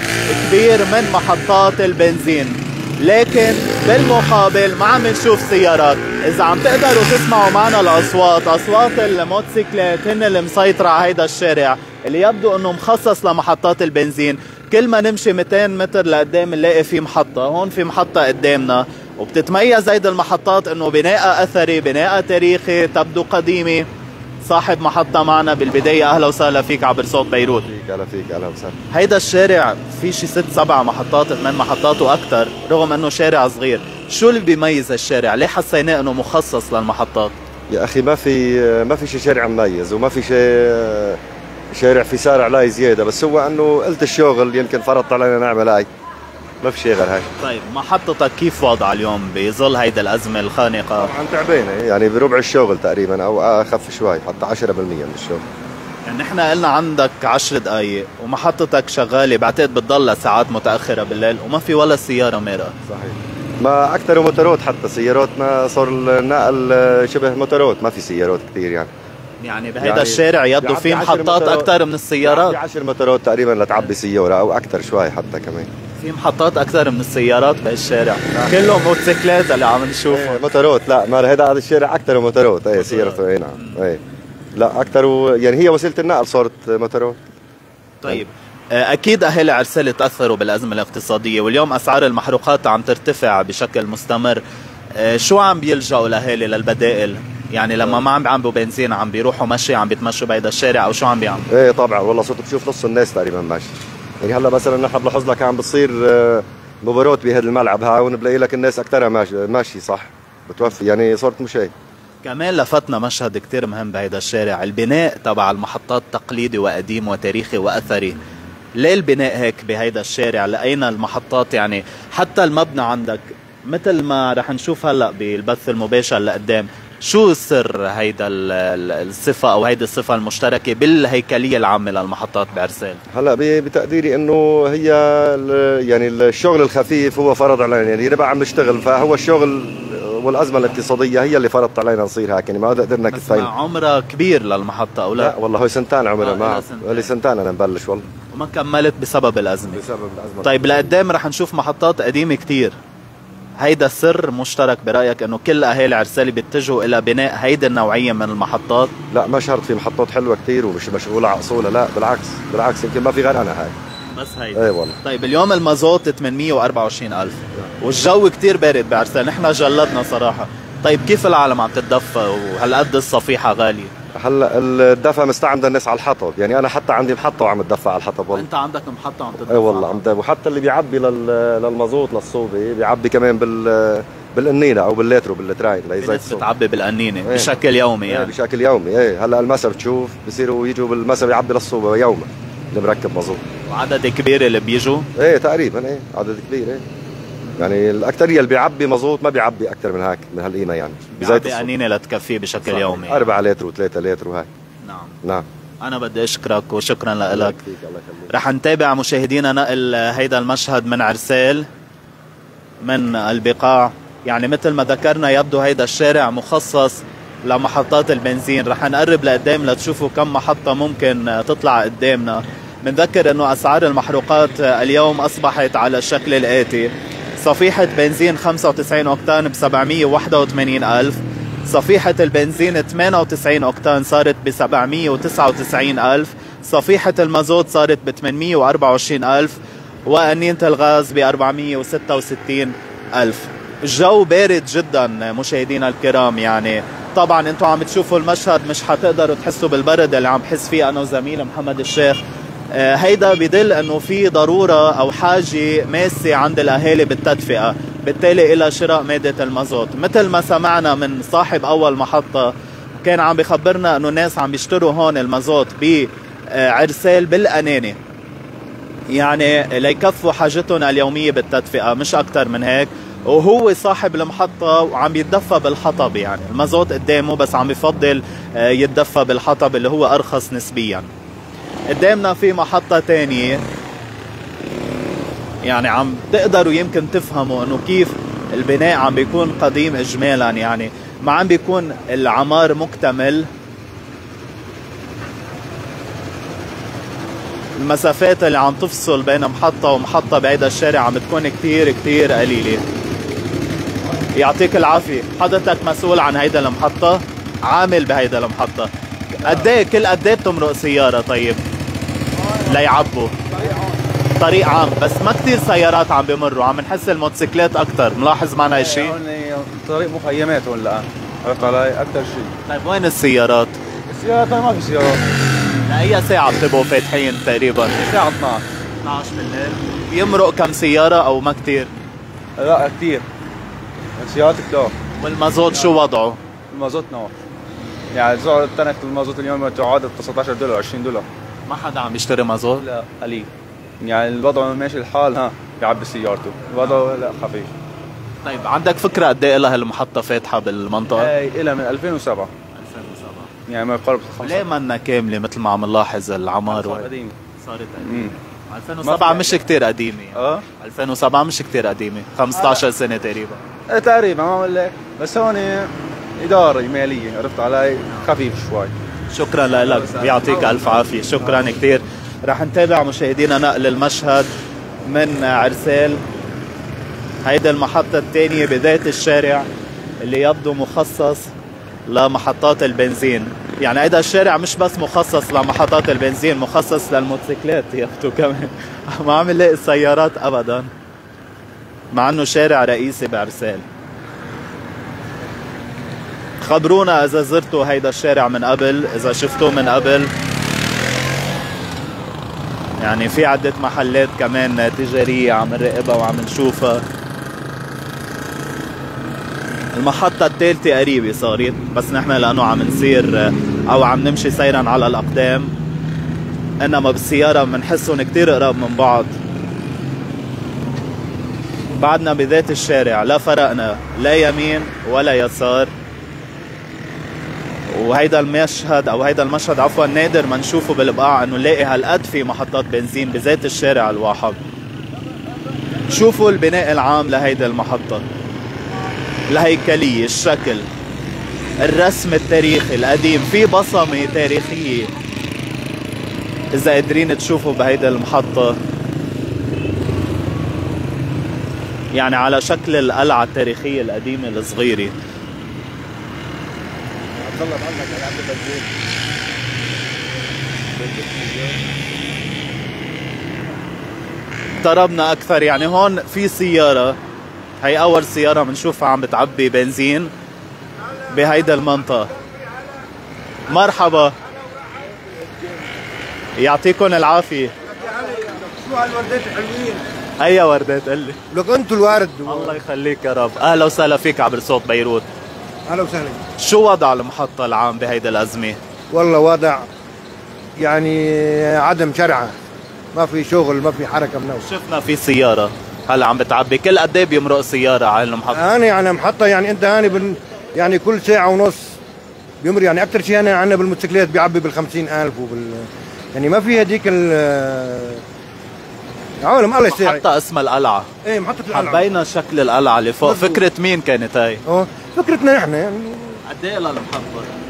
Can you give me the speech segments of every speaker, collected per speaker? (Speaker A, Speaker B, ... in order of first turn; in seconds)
Speaker A: 0.3-23.9, 24.4-27.7, 28.9-37.3, 47.4-51.1, 56.0-62.7, 69.4-72.6, 76.0-80.4, 82.8-83.8, 88.0-94.4, 94.9-101.5, 112.2-118.2, 118.8-133.0, 143.1-145.3, 146.2-147.1, 148.2-149.8, 150.4-152.8, 153.6-158.9, 164.1-173.9, 178.3-180.0, 186.0-188.3, 193.7-195.1, 201.1-203.3, 204.8-205.2, 205.8-207.6, 208.3-211.7, 212.8-252.2, 252.7-268.0, 269.1-281.1, 281.9-283.6, 285.6-293.5, 297.8-302.8, 304.3-311.6, 312.6-313.3, 314.4-319.1, 322.7-323.8, 325.9-328.0, 329.0-331.9, 335.2-336.4, 341.7-342.8, 348.4-351.3, 352.7-353.5, 354.4-363.6, 369.3-374.5, 375.0-376.2, 377.4-379.7, 380.2-381.5, 382.1-390.9, 392.1-393.8, 396.6-400.3, 403.0-407.0, 409.9-415.7, 416.8-419.3, 421.9-425.9, 427.9-434.6, 436.1-438.2, 439.5-440.9, 441.8-445.1, 446.7-448.8, 452.1-455.1, 464.8-467.2, 467.8-470.3, 471.3-472.3, 473.7-474.3, 476.6-477.7, 480.4-481.4, 482.5-485.2, 486.6-488.8, 494.6-498.6, 509.8-511.1, 511.7-514.6, 516.4-517.5
Speaker B: 27.4-28.7, 37.7-41.2, 41.7-45.9, 46.6-47.3, 51.0-55.4, 62.9-68.9, 69.8-71.7, 72.2-75.7, 80.1-84.0, 84.5-87.2, 101.5-111.7, 133.1-143.5, 145.2-148.1, 149.7-150.9, 159.1-163.7, 164.5-165.0, 174.1-178.5, 179.4-186.4, 187.2-187.5, 188.1-193.4, 195.2-196.8, 197.6-201.7, 202.6-204.5, 207.3-208.4
Speaker C: 313.5-313.9, 318.6-322.5, 324.1-325.3, 328.0-328.6, 332.6-333.3, 334.2-334.9, 336.7-337.3, 338.1-341.3, 342.8-343.5, 344.0-347.7, 351.1-352.5, 353.7-354.6, 356.7-357.4, 358.0-358.3, 359.0-359.6, 360.3-360.6, 363.9-368.9, 369.8-371.6
Speaker D: 457.4-458.9, 461.0-461.7, 477.9-480.0, 481.5-482.8, 485.9-486.4, 489.1-489.9, 490.8-492.6, 493.1-494.6, 498.5-502.0, 502.6-508.2, 509.4-510.2, 511.2-512.1, 513.2-513.6, 514.6-516.4